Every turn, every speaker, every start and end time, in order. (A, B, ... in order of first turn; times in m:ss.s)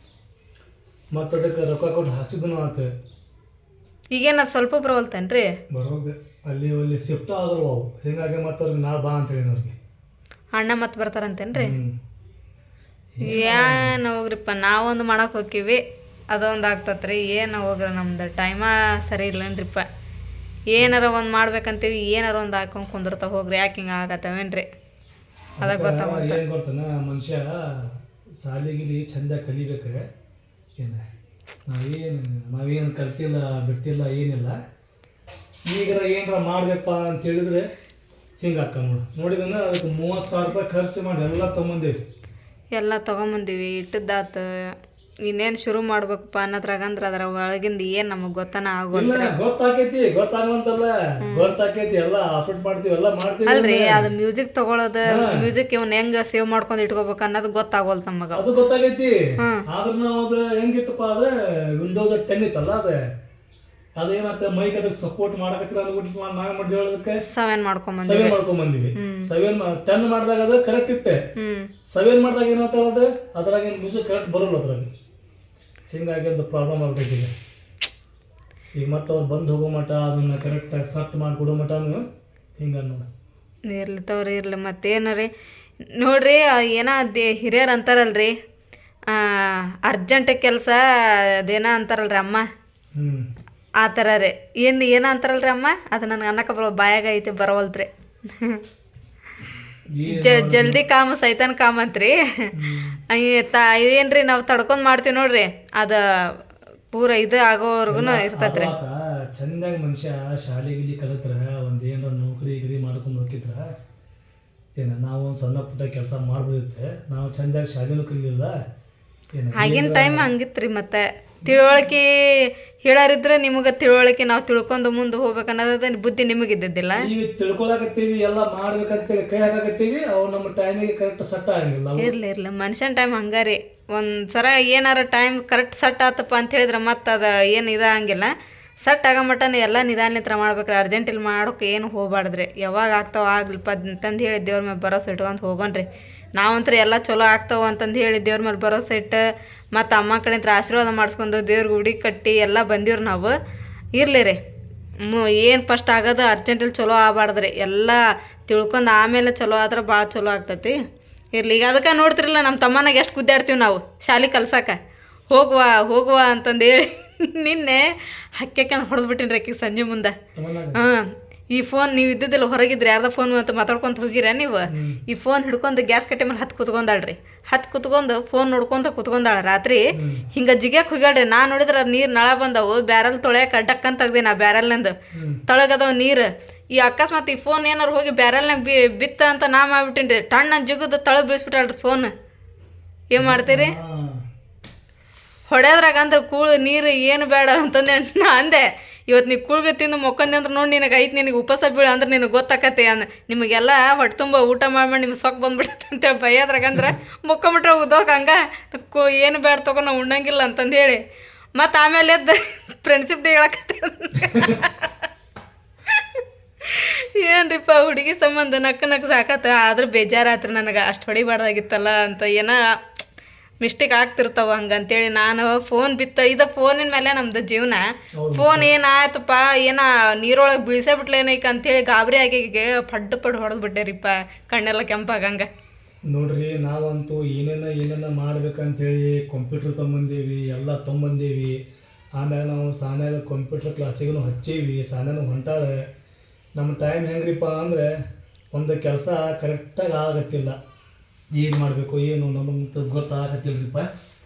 0:01.1-0:02.9 A
0:04.1-0:05.5 B
0:05.7-0:09.7 A
0:10.5-0:11.8 B
0:11.5-0:12.0 A
0:13.1-0:13.9 A
0:13.2-0:19.9 B
0:20.7-0:24.6 B
0:25.6-0:30.1 A
0:25.6-0:26.4 B
0:30.8-0:31.0 A
0:31.7-0:34.6 A
0:35.7-0:37.7 A
0:38.4-0:42.0 A
0:42.7-0:44.7 B
0:45.2-0:49.4 B
0:48.9-0:54.1 A
0:51.2-0:51.5 B
0:53.4-0:58.5 B
0:55.1-0:55.5 A
0:58.3-1:03.1 A
1:04.0-1:07.2 A
1:07.2-1:08.4 B
1:08.0-1:11.2 A
1:09.0-1:09.3 B
1:11.4-1:11.7 B
1:11.9-1:14.9 A
1:15.9-1:17.3 A
1:18.7-1:22.0 A
1:22.6-1:23.1 A
1:23.6-1:25.3 B
1:26.0-1:28.3 B
1:29.1-1:30.8 B
1:31.4-1:32.4 B
1:32.9-1:33.3 A
1:33.8-1:38.6 B
1:39.9-1:40.8 A
1:40.1-1:42.1 B
1:42.5-1:43.0 A
1:43.1-1:46.0 B
1:46.9-1:48.7 B
1:47.9-1:53.6 A
1:54.8-1:58.5 A
1:59.3-2:00.3 A
1:59.5-2:07.1 B
2:01.4-2:01.9 A
2:07.0-2:12.1 A
2:12.0-2:18.3 B
2:18.8-2:33.3 B
2:33.9-2:34.4 B
2:35.0-2:40.7 B
2:41.3-2:44.8 B
2:45.3-2:50.1 B
2:50.4-2:50.8 A
2:50.7-3:04.9 B
2:54.7-2:55.0 A
3:00.0-3:00.2 A
3:05.1-3:05.4 A
3:05.5-3:12.1 B
3:13.1-3:13.8 B
3:13.2-3:14.2 A
3:15.5-3:31.0 B
3:31.6-3:35.1 B
3:35.9-3:42.6 B
3:43.6-3:55.5 B
3:48.2-3:48.7 A
3:56.1-4:01.6 A
4:02.1-4:05.8 A
4:06.6-4:08.0 A
4:08.5-4:10.6 A
4:11.3-4:13.9 A